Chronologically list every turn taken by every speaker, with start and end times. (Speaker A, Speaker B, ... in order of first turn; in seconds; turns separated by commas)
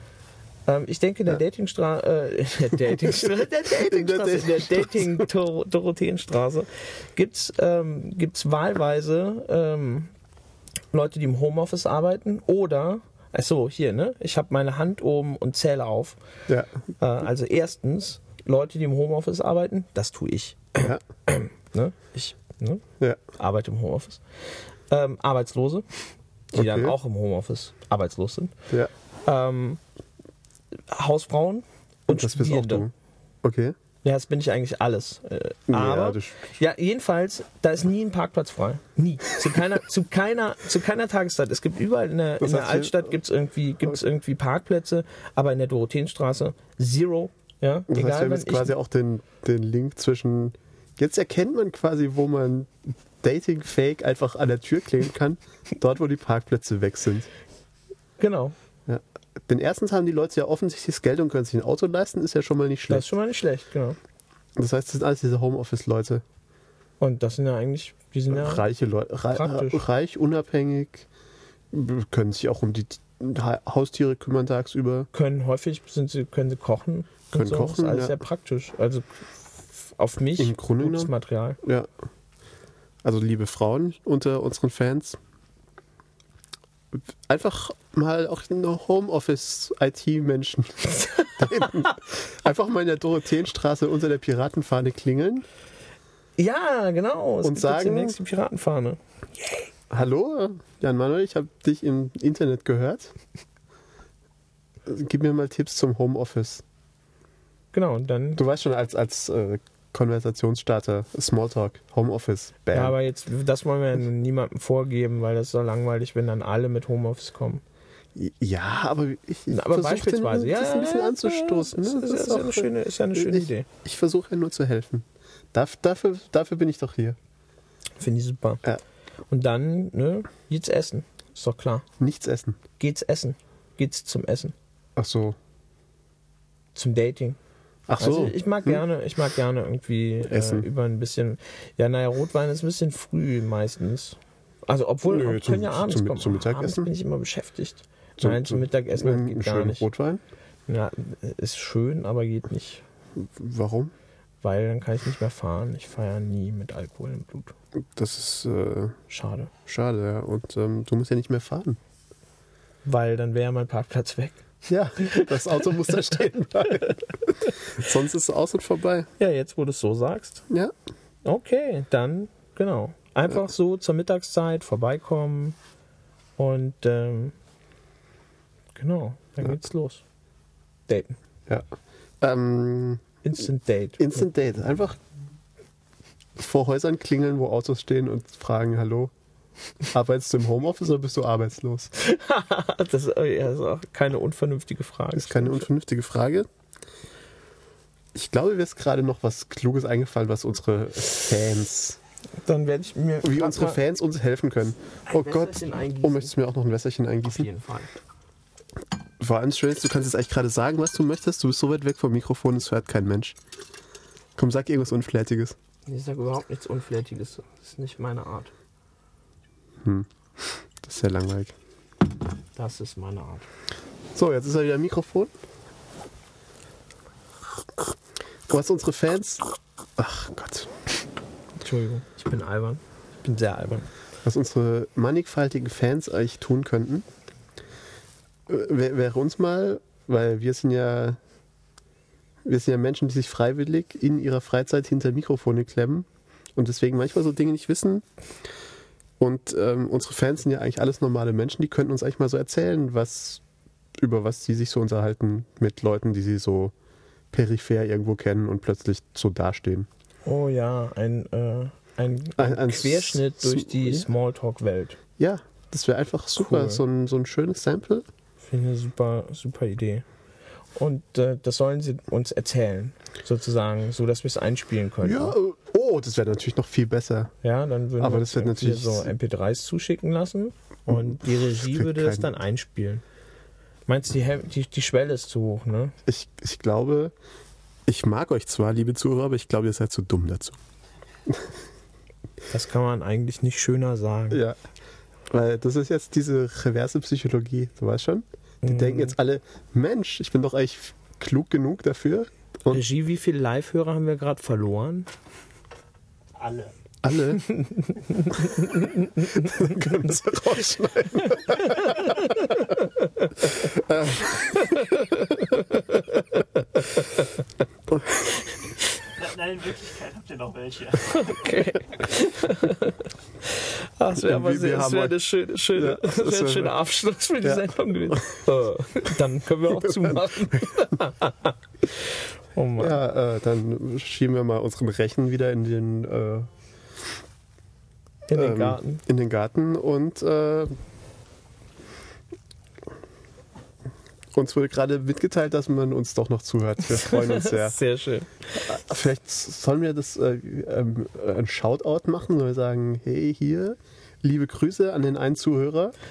Speaker A: 0.7-10.1, Speaker B: 3.1-5.3, Speaker A: 10.9-16.2, Speaker A: 17.0-22.8, Speaker A: 23.4-25.9, Speaker A: 26.5-28.6, Speaker B: 26.5-27.0, Speaker A: 29.2-29.8, Speaker A: 30.9-32.9, Speaker B: 32.1-32.9, Speaker B: 33.4-33.8, Speaker A: 34.0-48.7, Speaker B: 35.7-36.4, Speaker B: 42.4-42.9, Speaker B: 47.9-57.3, Speaker A: 58.2-58.6, Speaker B: 58.9-63.1, Speaker A: 62.9-64.0, Speaker B: 64.6-66.2, Speaker A: 67.0-68.6, Speaker B: 68.3-71.1, Speaker A: 69.3-69.8, Speaker B: 71.7-75.1, Speaker A: 75.1-81.6, Speaker B: 77.3-78.2, Speaker B: 80.4-81.9, Speaker B: 83.0-85.2, Speaker B: 86.9-95.5, Speaker A: 90.9-91.9, Speaker A: 96.4-99.0, Speaker B: 97.4-98.2, Speaker B: 99.9-103.1, Speaker B: 104.9-106.6, Speaker A: 107.7-108.4, Speaker B: 108.4-113.0, Speaker A: 112.7-117.6, Speaker B: 118.2-127.2, Speaker A: 119.5-123.7, Speaker A: 128.0-128.6, Speaker A: 129.3-131.8, Speaker B: 132.0-132.6, Speaker A: 132.8-134.6, Speaker B: 135.0-135.4, Speaker A: 136.8-137.4, Speaker B: 137.9-138.8, Speaker A: 138.0-149.8, Speaker B: 140.2-140.7, Speaker B: 145.1-146.9, Speaker B: 148.2-150.2, Speaker A: 150.7-152.8, Speaker B: 153.2-153.9, Speaker A: 154.4-157.6, Speaker B: 157.9-159.0, Speaker A: 159.1-159.5, Speaker B: 159.7-161.8, Speaker A: 162.8-164.4, Speaker B: 164.7-167.0, Speaker A: 165.0-165.5, Speaker B: 167.8-169.1, Speaker A: 169.2-170.5, Speaker A: 171.2-175.6, Speaker A: 176.4-177.3, Speaker A: 178.8-180.0, Speaker A: 180.9-181.2, Speaker B: 182.2-183.1, Speaker A: 183.2-184.3, Speaker B: 184.0-185.0, Speaker B: 186.4-189.1, Speaker B: 189.9-191.9, Speaker A: 191.9-195.7, Speaker B: 195.2-196.5, Speaker B: 198.1-202.0, Speaker A: 202.4-203.8, Speaker B: 203.2-207.5, Speaker A: 205.1-206.3, Speaker A: 207.2-207.9, Speaker B: 209.2-213.4, Speaker B: 214.4-215.6, Speaker A: 215.9-218.5, Speaker B: 219.8-221.5, Speaker A: 222.6-223.5, Speaker B: 224.2-225.3, Speaker B: 228.5-230.7, Speaker A: 231.6-233.9, Speaker B: 234.2-237.1, Speaker B: 238.5-241.2, Speaker B: 242.4-248.1, Speaker B: 249.2-253.4, Speaker B: 254.0-256.7, Speaker B: 257.3-259.9, Speaker A: 260.2-265.0, Speaker B: 262.4-264.1, Speaker B: 265.2-268.1, Speaker A: 266.4-266.8, Speaker A: 268.4-270.1, Speaker A: 270.8-275.4, Speaker B: 275.0-277.3, Speaker A: 277.4-283.0, Speaker B: 278.0-279.1, Speaker B: 280.9-282.3, Speaker A: 283.9-285.9, Speaker B: 286.1-287.1, Speaker B: 287.9-290.6, Speaker A: 292.5-294.4, Speaker B: 294.3-294.6, Speaker B: 295.3-302.8, Speaker A: 298.6-299.1, Speaker A: 302.7-305.1, Speaker C: 306.4-306.7, Speaker B: 307.0-307.4, Speaker A: 307.4-310.2, Speaker B: 309.2-312.7, Speaker A: 311.1-313.6, Speaker B: 313.5-315.4, Speaker A: 314.4-317.3, Speaker C: 319.2-321.4, Speaker A: 321.1-333.0, Speaker B: 324.2-325.2, Speaker B: 325.8-326.8, Speaker B: 327.4-328.2, Speaker B: 332.8-336.5, Speaker A: 338.3-339.0, Speaker B: 338.3-340.8, Speaker B: 344.3-347.8, Speaker A: 347.0-348.7, Speaker B: 348.6-355.9